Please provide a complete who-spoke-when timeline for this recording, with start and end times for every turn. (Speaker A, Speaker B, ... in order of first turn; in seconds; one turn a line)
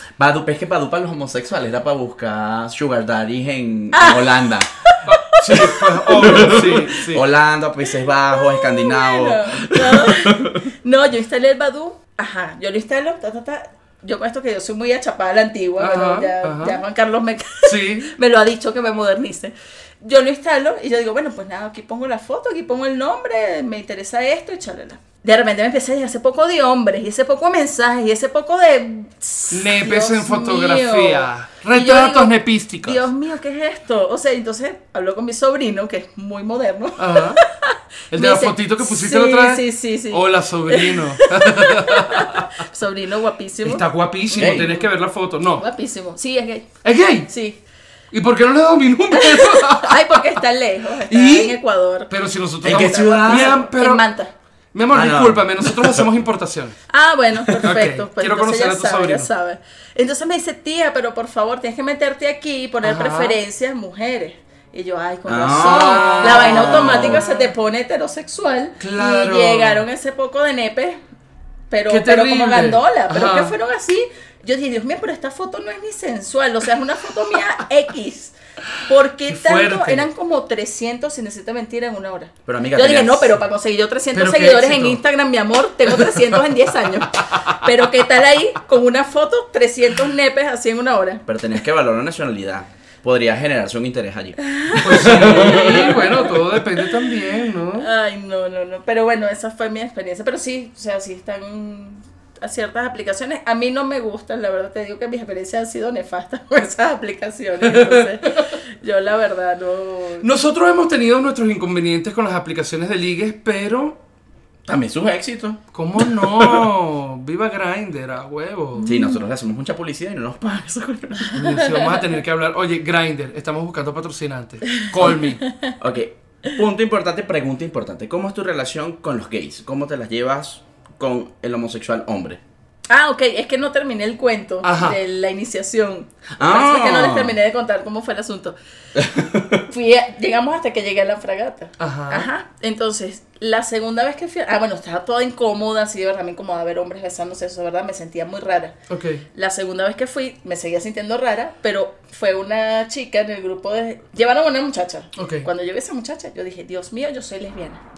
Speaker A: 0.2-4.7
Speaker B: 3.9-6.7
Speaker C: 5.1-7.2
Speaker A: 5.5-10.7
Speaker B: 8.3-44.9
Speaker C: 15.8-16.8
Speaker C: 17.6-18.1
Speaker C: 29.5-33.1
Speaker C: 37.0-37.4
Speaker C: 38.1-42.5
Speaker C: 43.6-45.6
Speaker A: 44.3-44.7
Speaker B: 45.5-46.7
Speaker C: 46.8-47.3
Speaker B: 47.3-47.6
Speaker C: 48.1-50.3
Speaker B: 49.1-54.3
Speaker C: 51.1-51.6
Speaker C: 52.1-54.1
Speaker A: 52.6-53.6
Speaker C: 54.7-56.8
Speaker A: 54.9-56.1
Speaker B: 56.9-71.0
Speaker C: 57.6-59.3
Speaker C: 62.8-63.4
Speaker A: 65.3-67.2
Speaker C: 65.5-67.5
Speaker C: 68.8-69.9
Speaker B: 71.7-91.2
Speaker C: 71.9-73.6
Speaker C: 79.2-80.1
Speaker A: 82.5-83.4
Speaker C: 84.1-85.0
Speaker C: 85.9-86.4
Speaker A: 91.3-96.2
Speaker B: 94.4-96.8
Speaker C: 94.8-97.9
Speaker B: 97.8-110.3
Speaker C: 107.6-108.5
Speaker C: 110.2-114.0
Speaker A: 114.7-116.7
Speaker C: 115.7-118.9
Speaker B: 118.8-119.2
Speaker A: 118.8-121.5
Speaker B: 121.3-122.0
Speaker C: 121.4-125.4
Speaker B: 125.4-125.7
Speaker A: 125.8-132.4
Speaker B: 132.9-138.6
Speaker C: 134.6-135.0
Speaker A: 136.4-137.4
Speaker A: 138.9-139.7
Speaker B: 139.7-148.8
Speaker C: 141.8-142.3
Speaker C: 148.9-149.2
Speaker B: 149.3-157.8
Speaker C: 155.2-155.5